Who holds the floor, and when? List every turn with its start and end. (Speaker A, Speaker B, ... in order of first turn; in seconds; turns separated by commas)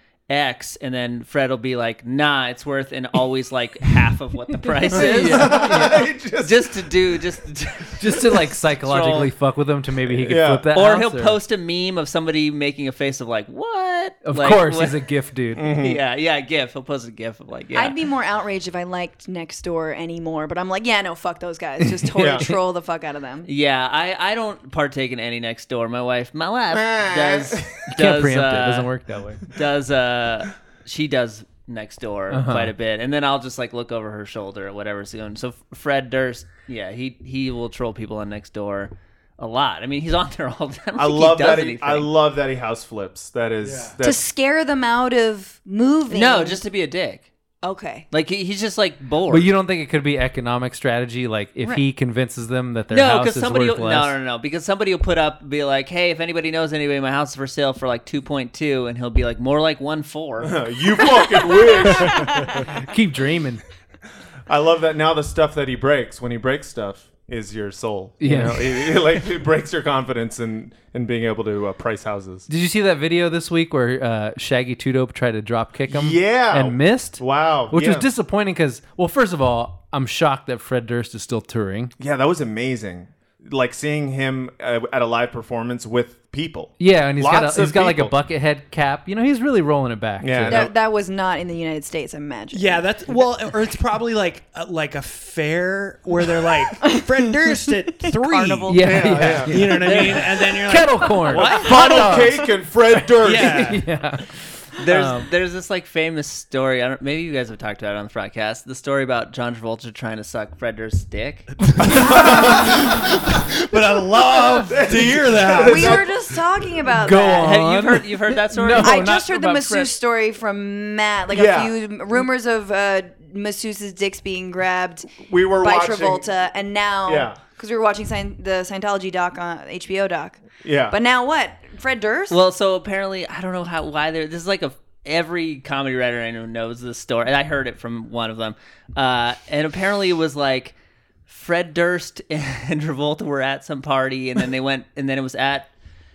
Speaker A: 0.3-9.3, Speaker B: 4.7-6.1, Speaker C: 4.9-6.9, Speaker B: 8.0-11.4, Speaker C: 10.1-10.7, Speaker A: 10.7-15.1, Speaker B: 14.2-15.7, Speaker C: 15.5-16.0, Speaker A: 15.7-17.9, Speaker D: 17.7-23.5, Speaker C: 22.1-22.5, Speaker A: 23.4-28.9, Speaker C: 26.7-27.8, Speaker B: 27.9-29.4, Speaker A: 29.4-42.1, Speaker B: 32.3-32.7, Speaker C: 41.0-44.2, Speaker E: 43.6-43.9, Speaker D: 44.0-46.6, Speaker A: 46.1-47.3, Speaker D: 47.6-48.0, Speaker A: 48.1-49.5, Speaker B: 49.3-54.1, Speaker A: 52.9-60.6, Speaker C: 60.4-62.3, Speaker D: 61.1-62.6, Speaker B: 62.7-63.6, Speaker C: 64.5-72.5, Speaker B: 68.2-68.9, Speaker B: 72.5-81.9, Speaker C: 75.9-78.1, Speaker C: 82.0-88.1, Speaker B: 86.8-90.7, Speaker C: 90.2-90.7, Speaker D: 90.5-92.9, Speaker E: 92.5-101.9, Speaker D: 96.8-97.3, Speaker D: 98.0-99.0, Speaker B: 98.7-102.5, Speaker C: 98.8-99.8, Speaker A: 99.6-100.6, Speaker C: 101.3-103.8, Speaker D: 101.7-102.2, Speaker E: 103.2-103.8, Speaker B: 103.4-104.3, Speaker A: 104.8-111.5, Speaker B: 104.8-105.3, Speaker E: 111.6-116.1, Speaker C: 111.8-112.9, Speaker C: 114.6-116.1, Speaker D: 115.6-117.6, Speaker B: 117.0-119.8, Speaker A: 117.4-119.9, Speaker D: 118.8-132.4, Speaker C: 121.3-121.7, Speaker C: 125.2-126.2, Speaker C: 127.0-127.4, Speaker C: 130.6-130.9, Speaker A: 132.3-140.7, Speaker A: 141.3-145.7